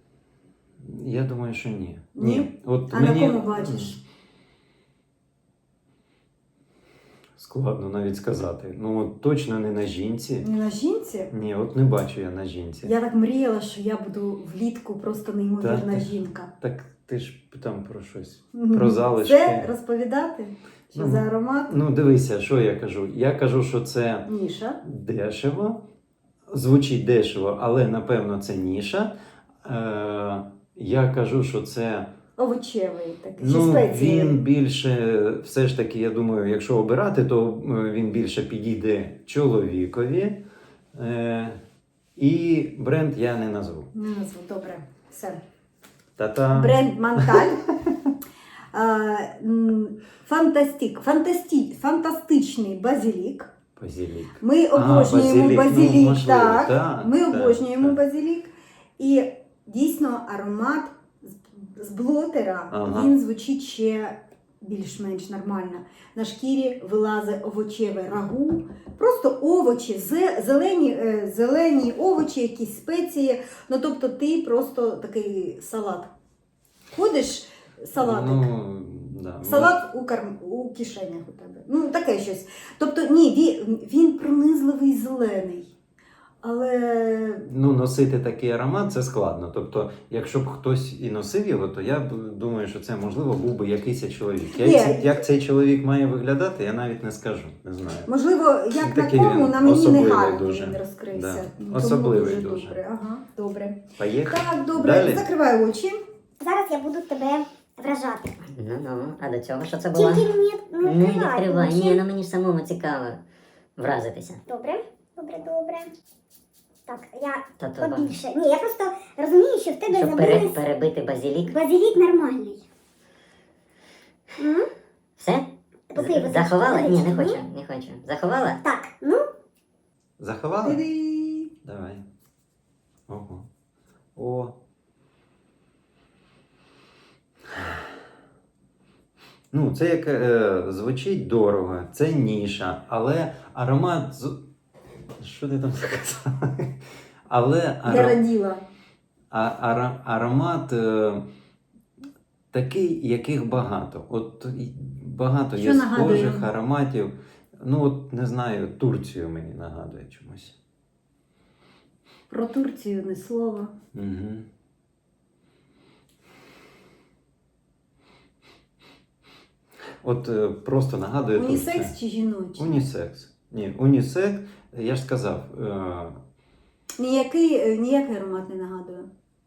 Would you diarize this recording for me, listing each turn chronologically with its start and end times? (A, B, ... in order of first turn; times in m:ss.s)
0:00.8-0:04.0 A
0:02.2-0:04.0 B
0:07.4-0:10.5 A
0:10.4-0:11.3 B
0:11.3-0:12.9 A
0:12.8-0:16.5 B
0:15.6-0:19.7 A
0:18.5-0:21.8 B
0:20.9-0:24.3 A
0:24.3-0:24.8 B
0:24.8-0:25.8 A
0:26.5-0:32.1 A
0:32.4-0:34.4 B
0:33.4-0:41.6 A
0:42.2-0:43.9 A
0:43.9-0:45.4 B
0:46.2-0:47.9 A
0:46.5-0:47.9 B
0:48.7-0:53.5 B
0:53.8-0:58.0 A
0:54.4-1:16.1 B
1:02.7-1:03.1 A
1:16.9-1:18.5 B
1:18.0-1:19.8 A
1:19.4-1:25.7 B
1:26.4-1:27.5 B
1:27.5-1:38.1 A
1:34.5-1:35.2 B
1:38.1-1:46.0 B
1:38.8-1:42.8 A
1:44.0-1:45.3 A
1:46.4-1:48.4 C
1:48.5-1:50.3 D
1:50.0-1:52.0 C
1:50.8-1:53.2 D
1:53.8-1:54.4 D
1:54.5-1:55.9 C
1:56.9-2:00.6 C
1:57.6-1:58.2 D
1:59.9-2:01.6 D
2:01.5-2:02.6 C
2:04.4-2:04.7 C
2:05.2-2:08.6 D
2:05.9-2:07.4 C
2:08.6-2:09.2 C
2:10.2-2:10.8 A
2:10.6-2:11.5 B
2:11.6-2:12.0 A
2:13.1-2:13.5 A
2:14.2-2:14.6 A
2:17.5-2:17.9 A
2:19.5-2:24.5 A
2:25.2-2:28.2 A
2:27.9-2:28.6 B
2:29.3-2:31.3 A
2:32.5-2:40.6 A
2:35.6-2:36.5 B
2:42.3-2:43.7 B
2:43.9-2:44.5 A
2:50.0-2:52.0 A
2:51.4-2:52.8 B
2:52.6-2:56.2 A
2:57.0-2:59.1 B